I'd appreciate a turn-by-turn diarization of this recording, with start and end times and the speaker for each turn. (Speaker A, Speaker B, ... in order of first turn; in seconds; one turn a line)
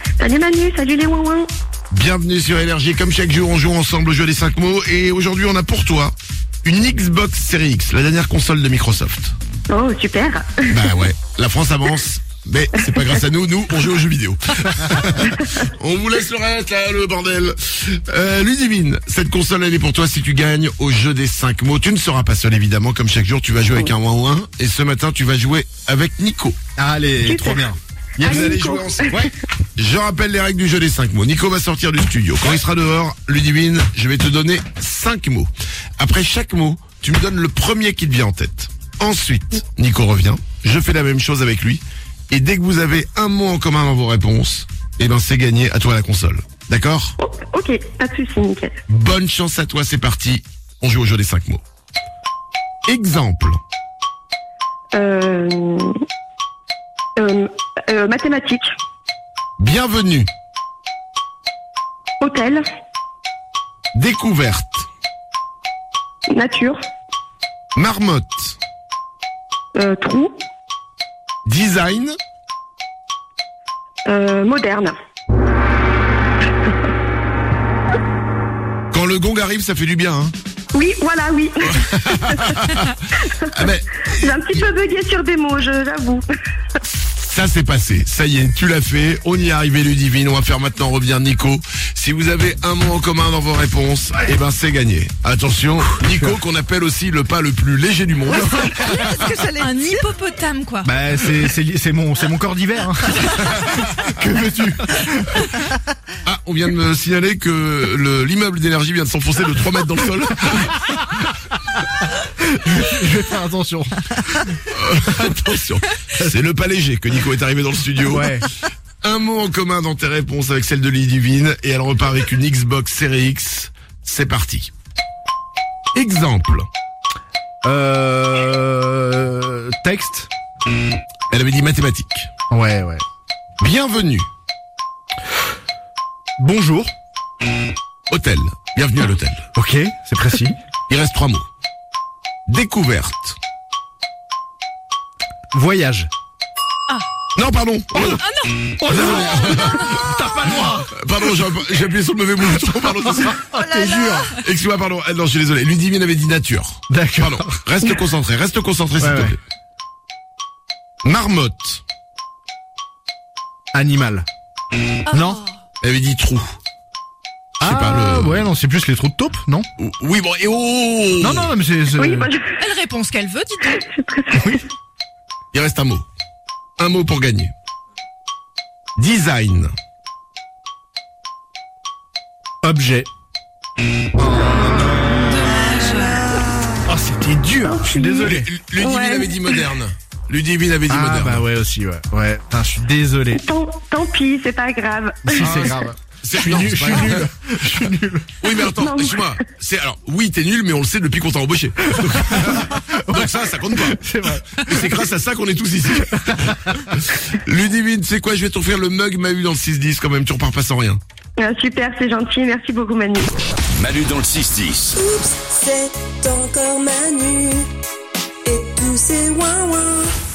Speaker A: 0.2-1.5
Speaker B: 1.9-9.3
Speaker A: 9.7-10.7
Speaker B: 10.7-26.6
Speaker C: 26.8-27.8
Speaker A: 27.2-27.6
Speaker B: 28.2-47.1
Speaker A: 28.2-29.2
Speaker A: 47.2-48.8
Speaker B: 48.9-51.6
Speaker B: 52.9-53.6
Speaker A: 54.9-55.9
Speaker A: 57.2-58.7
Speaker B: 59.6-60.3
Speaker A: 62.2-62.6
Speaker B: 63.9-64.9
Speaker A: 66.3-66.8
Speaker B: 67.7-68.6
Speaker A: 69.7-70.3
Speaker B: 71.5-72.1
Speaker A: 74.0-74.9
Speaker B: 78.9-80.3
Speaker A: 80.7-82.6
Speaker B: 81.8-82.9
Speaker A: 83.2-83.5
Speaker B: 83.5-84.6
Speaker A: 84.2-86.2
Speaker B: 87.2-99.3
Speaker C: 96.0-96.3
Speaker D: 98.7-100.9
Speaker C: 100.8-105.5
Speaker B: 106.2-110.8
Speaker C: 112.4-114.2
Speaker B: 114.6-118.4
Speaker C: 118.1-118.4
Speaker B: 119.0-124.7
Speaker B: 125.9-126.7
Speaker C: 127.6-130.3
Speaker B: 131.3-132.3
Speaker C: 132.5-133.0
Speaker B: 133.6-134.3
Speaker C: 136.4-136.9
Speaker B: 138.1-139.4
Speaker C: 139.5-140.6
Speaker B: 140.9-141.4
Speaker B: 142.5-143.4
Speaker C: 145.5-146.1
Speaker B: 147.3-148.2
Speaker C: 147.9-151.4
Speaker D: 148.2-149.9
Speaker B: 148.9-149.9
Speaker B: 150.6-153.4
Speaker C: 153.0-154.3
Speaker D: 153.6-154.3
Speaker B: 154.2-159.4
Speaker C: 156.9-158.1
Speaker C: 159.0-159.4
Speaker B: 161.0-161.8
Speaker C: 163.7-164.3
Speaker D: 165.1-165.5
Speaker C: 165.1-165.4
Speaker B: 165.8-166.6
Speaker B: 167.6-168.5
Speaker C: 167.6-169.7
Speaker B: 169.8-171.5
Speaker C: 171.2-172.3
Speaker A: 171.9-172.6
Speaker D: 172.6-173.8
Speaker A: 173.7-174.6
Speaker C: 174.3-174.6
Speaker B: 175.5-176.0
Speaker B: 176.8-177.5
Speaker B: 179.0-179.7
Speaker C: 182.6-183.1
Speaker C: 184.1-185.5
Speaker D: 185.3-186.4
Speaker C: 186.8-188.5
Speaker A: 187.6-189.6
Speaker B: 188.2-191.4
Speaker C: 190.9-193.4
Speaker A: 193.3-195.8
Speaker C: 195.2-198.7
Speaker B: 195.4-211.0
Speaker A: 198.8-199.2
Speaker C: 201.8-205.0
Speaker C: 205.9-206.9
Speaker A: 211.4-213.3
Speaker C: 213.8-214.9
Speaker E: 214.9-217.7
Speaker E: 218.4-220.1